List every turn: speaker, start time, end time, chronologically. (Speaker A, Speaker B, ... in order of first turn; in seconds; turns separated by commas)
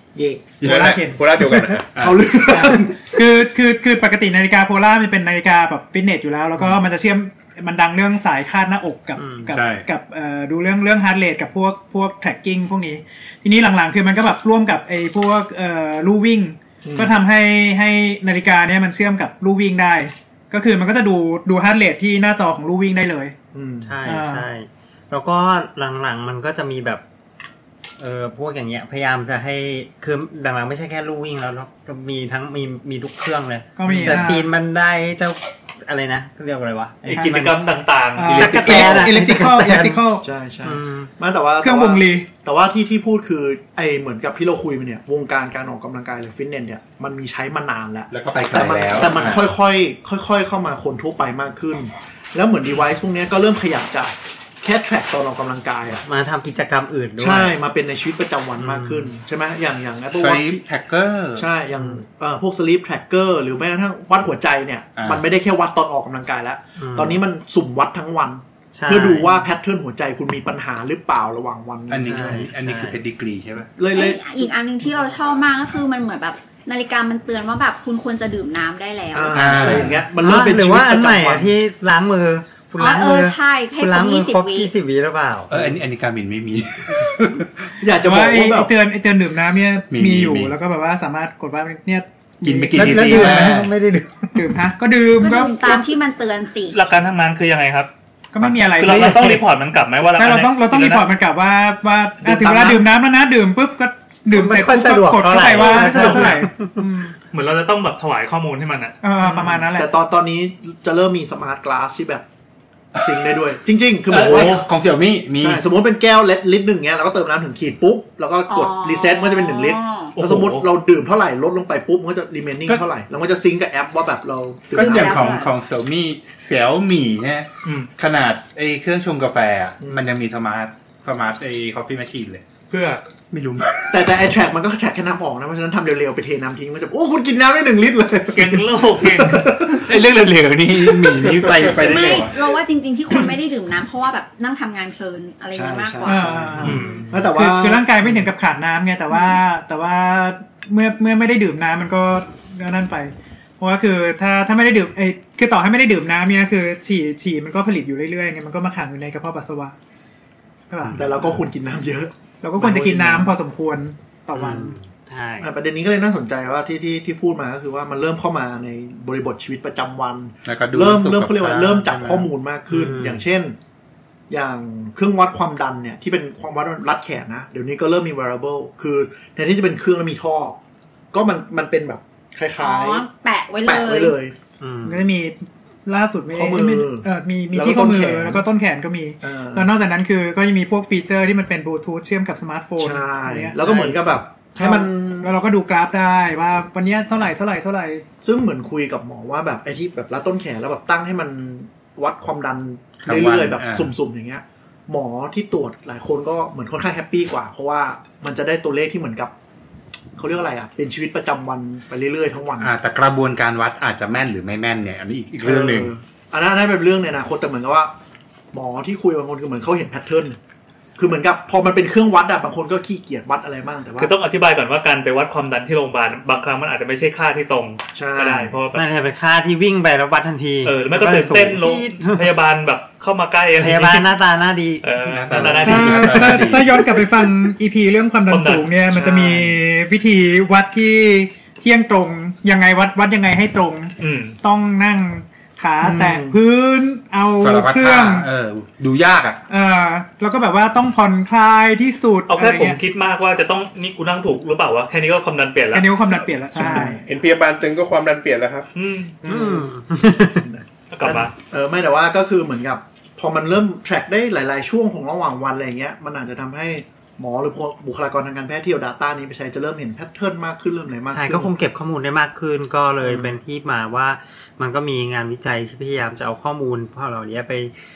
Speaker A: 0.1-0.5, Speaker B: 0.6-0.9, Speaker C: 0.6-1.7, Speaker D: 0.6-1.9, Speaker B: 1.9-2.3, Speaker A: 2.0-3.0, Speaker C: 2.5-23.4, Speaker E: 9.2-9.5, Speaker B: 9.5-9.9, Speaker A: 16.8-17.2, Speaker A: 23.5-23.9, Speaker E: 23.8-27.0, Speaker C: 24.0-24.5, Speaker E: 28.0-37.6, Speaker C: 33.8-34.5, Speaker A: 33.8-34.2, Speaker F: 37.0-38.5, Speaker C: 38.1-40.2, Speaker E: 38.4-40.0, Speaker B: 38.4-39.1, Speaker A: 38.7-39.0, Speaker A: 40.2-56.0, Speaker E: 40.6-41.1, Speaker C: 41.6-42.3, Speaker B: 48.1-49.5, Speaker E: 56.0-57.5, Speaker A: 57.2-60.6, Speaker E: 58.6-59.1, Speaker B: 60.1-61.5, Speaker A: 61.4-72.5, Speaker B: 65.0-65.2, Speaker E: 66.8-67.2, Speaker E: 68.7-69.4, Speaker B: 71.9-73.7, Speaker E: 72.0-73.0, Speaker A: 73.8-74.5, Speaker G: 73.9-79.6, Speaker A: 79.1-81.5, Speaker B: 79.3-80.0, Speaker E: 79.7-85.6, Speaker G: 82.8-84.7, Speaker B: 85.5-87.7, Speaker A: 87.8-88.7, Speaker C: 87.9-93.5, Speaker B: 89.9-90.5, Speaker B: 92.4-93.7, Speaker E: 92.7-94.4, Speaker C: 94.3-95.8, Speaker G: 95.2-96.8, Speaker F: 96.7-97.9, Speaker C: 98.3-99.4, Speaker F: 98.7-101.1, Speaker E: 98.9-99.4, Speaker C: 100.1-107.1, Speaker A: 102.2-102.8, Speaker E: 104.3-106.8, Speaker F: 105.4-106.5, Speaker F: 107.3-109.5, Speaker C: 109.0-109.9, Speaker A: 109.4-112.2, Speaker A: 112.9-114.7, Speaker B: 113.0-113.2, Speaker B: 114.1-115.6, Speaker A: 115.4-125.4, Speaker G: 118.5-120.1, Speaker F: 120.1-120.7, Speaker G: 124.7-125.5, Speaker B: 124.7-132.4, Speaker F: 132.7-133.0, Speaker B: 133.3-134.0, Speaker A: 133.9-139.9, Speaker F: 138.3-139.4, Speaker B: 139.6-142.3, Speaker A: 141.1-141.4, Speaker G: 141.8-146.4, Speaker A: 145.5-148.2, Speaker C: 146.0-159.7, Speaker F: 146.6-147.1, Speaker C: 160.7-161.1, Speaker A: 161.0-163.3, Speaker C: 162.4-164.8, Speaker E: 164.3-165.5, Speaker A: 165.4-173.6, Speaker B: 170.4-171.9, Speaker E: 171.9-173.2, Speaker A: 174.3-180.6, Speaker A: 181.1-183.1, Speaker G: 182.6-184.2, Speaker A: 183.6-184.3, Speaker E: 184.6-185.1, Speaker C: 184.8-194.0, Speaker A: 186.3-188.4, Speaker A: 189.2-189.7, Speaker A: 192.8-195.3, Speaker C: 194.6-198.0, Speaker A: 198.2-209.3, Speaker B: 203.0-203.9, Speaker A: 210.2-212.7, Speaker B: 212.6-215.9, Speaker A: 215.4-217.9, Speaker A: 218.5-220.4, Speaker A: 221.0-224.1, Speaker F: 224.0-228.8, Speaker A: 227.9-228.5, Speaker E: 228.7-232.3, Speaker F: 230.6-234.1, Speaker E: 233.6-235.4, Speaker F: 234.8-236.3, Speaker B: 235.1-236.8, Speaker C: 235.6-248.3, Speaker F: 238.3-238.7, Speaker A: 238.9-239.5, Speaker F: 244.0-244.3, Speaker A: 245.8-246.4, Speaker B: 247.4-249.4, Speaker C: 249.5-252.8, Speaker F: 252.3-256.0, Speaker C: 255.7-257.0, Speaker A: 256.5-257.0, Speaker D: 257.0-258.7, Speaker F: 258.7-259.1, Speaker D: 259.2-259.7, Speaker E: 259.2-260.5, Speaker A: 260.2-271.5, Speaker F: 260.9-261.3, Speaker E: 271.1-277.7, Speaker A: 273.0-273.3